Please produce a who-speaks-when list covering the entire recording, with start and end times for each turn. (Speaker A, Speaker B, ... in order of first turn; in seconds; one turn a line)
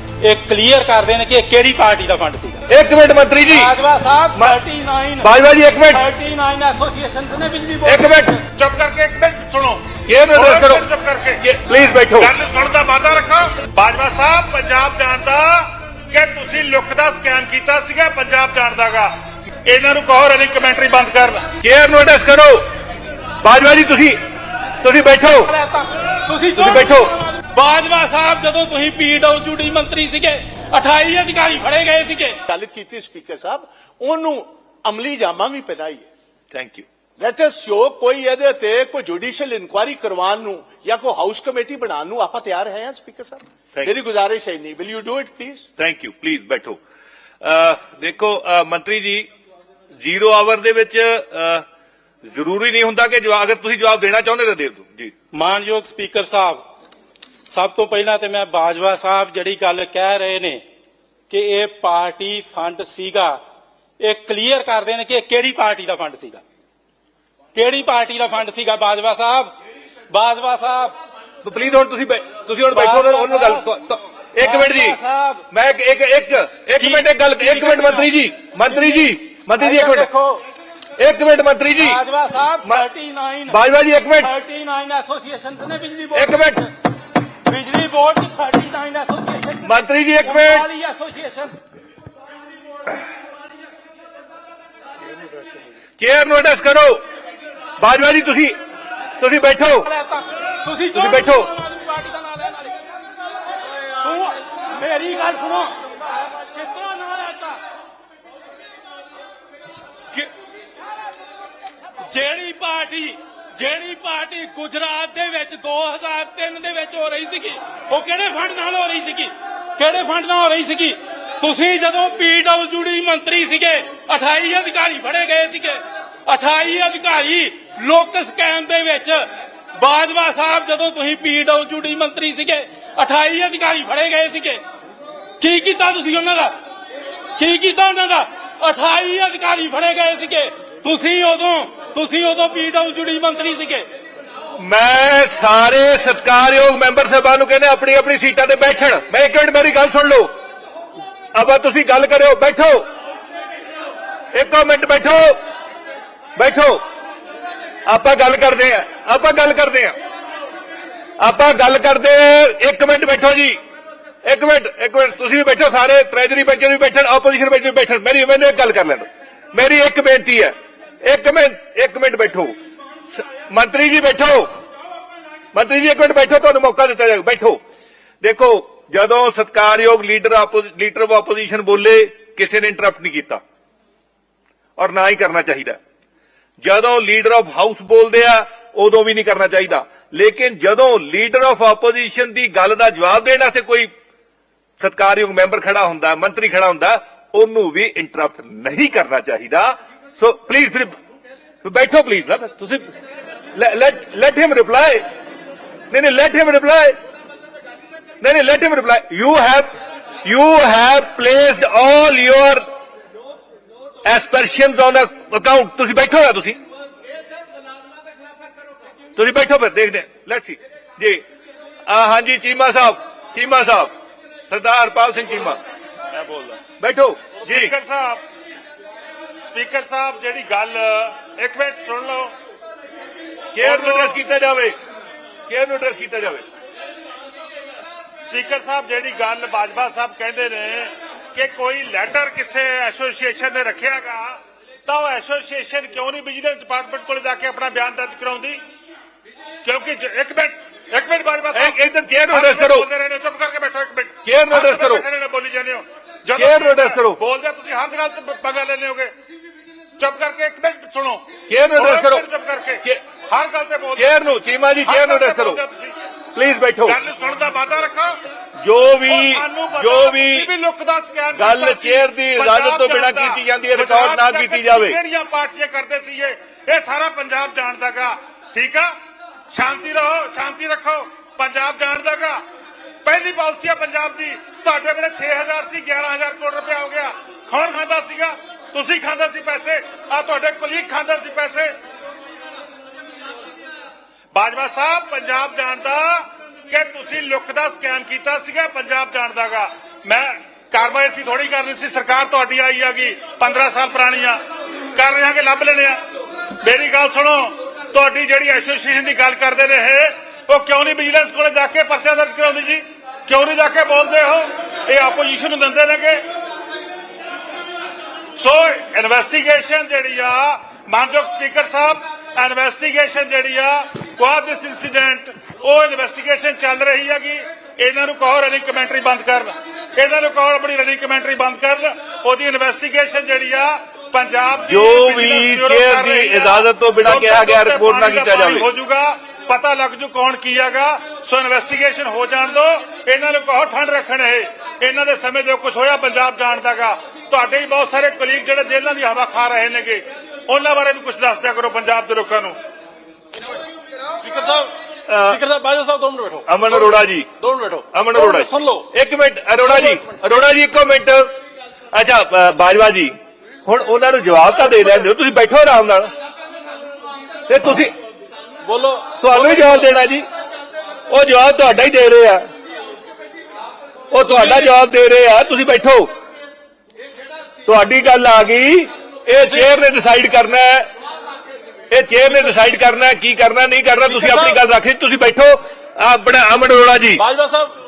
Speaker A: 0.2-2.6
Speaker B: 2.7-3.7
Speaker A: 3.5-5.3
Speaker B: 5.2-6.0
Speaker A: 5.8-8.4
Speaker B: 7.8-8.4
Speaker C: 8.5-11.4
Speaker B: 10.1-10.8
Speaker B: 11.4-12.3
Speaker C: 12.2-21.4
Speaker B: 21.6-22.6
Speaker B: 23.4-24.2
Speaker B: 24.8-25.5
Speaker A: 25.4-32.4
Speaker B: 26.6-27.1
Speaker D: 32.5-36.1
Speaker B: 36.5-36.9
Speaker D: 37.2-45.7
Speaker B: 45.8-46.8
Speaker B: 47.4-49.3
Speaker B: 50.0-51.6
Speaker B: 52.3-55.1
Speaker A: 55.3-56.6
Speaker A: 57.5-60.6
Speaker A: 61.3-63.4
Speaker A: 64.0-66.4
Speaker A: 67.5-69.5
Speaker A: 70.1-70.9
Speaker B: 71.4-75.0
Speaker A: 72.7-73.7
Speaker A: 74.4-75.4
Speaker B: 75.5-80.1
Speaker A: 76.8-78.1
Speaker A: 78.7-80.4
Speaker B: 81.0-82.0
Speaker A: 81.8-83.6
Speaker B: 83.5-84.3
Speaker A: 84.2-86.7
Speaker B: 86.1-86.6
Speaker A: 87.4-91.6
Speaker B: 89.6-90.7
Speaker B: 96.0-97.0
Speaker B: 97.8-98.5
Speaker B: 99.2-99.9
Speaker A: 99.8-102.8
Speaker B: 100.9-101.5
Speaker A: 104.0-107.6
Speaker A: 112.1-134.6
Speaker A: 135.4-136.5
Speaker A: 137.4-143.9
Speaker B: 144.6-150.3
Speaker B: 151.3-152.8
Speaker B: 154.3-155.4
Speaker B: 156.4-156.8
Speaker B: 157.8-159.9
Speaker B: 161.2-163.6
Speaker B: 164.2-172.6
Speaker B: 173.1-174.5
Speaker B: 175.5-177.6
Speaker B: 178.2-183.4
Speaker B: 184.8-185.8
Speaker B: 186.6-193.9
Speaker B: 194.8-200.9
Speaker B: 201.6-202.9
Speaker B: 203.5-205.0
Speaker B: 205.9-207.0
Speaker B: 208.2-212.6
Speaker B: 214.0-216.6
Speaker B: 219.2-221.2
Speaker B: 221.8-223.9
Speaker B: 224.5-225.6
Speaker C: 226.1-226.6
Speaker B: 226.8-227.7
Speaker C: 227.4-228.2
Speaker C: 229.4-232.3
Speaker B: 233.5-234.8
Speaker C: 233.6-234.2
Speaker B: 235.5-236.4
Speaker C: 238.2-248.6
Speaker C: 249.6-251.8
Speaker B: 251.5-252.9
Speaker C: 252.3-259.1
Speaker B: 254.2-255.0
Speaker B: 256.3-257.2
Speaker C: 260.0-261.2
Speaker B: 261.5-262.2
Speaker C: 261.7-264.3
Speaker B: 263.9-265.6
Speaker C: 264.8-265.9
Speaker B: 266.3-267.0
Speaker C: 266.8-268.2
Speaker B: 268.6-270.5
Speaker C: 269.1-278.9
Speaker B: 271.3-275.0
Speaker C: 279.5-282.4
Speaker C: 283.0-291.7
Speaker C: 294.3-304.4
Speaker C: 304.9-306.0
Speaker C: 306.5-316.2
Speaker C: 318.4-352.6
Speaker B: 334.7-338.7
Speaker E: 354.2-354.7
Speaker B: 355.1-355.4
Speaker E: 355.3-358.9
Speaker B: 356.5-357.3
Speaker B: 357.9-361.3
Speaker B: 361.9-363.1
Speaker B: 363.6-366.1
Speaker B: 367.5-367.9
Speaker E: 368.6-369.7
Speaker B: 369.2-370.2
Speaker B: 371.1-372.4
Speaker B: 374.1-376.1
Speaker E: 374.3-374.6
Speaker B: 377.6-380.9
Speaker B: 381.9-387.2
Speaker A: 384.1-384.6
Speaker E: 384.1-384.5
Speaker E: 387.2-387.7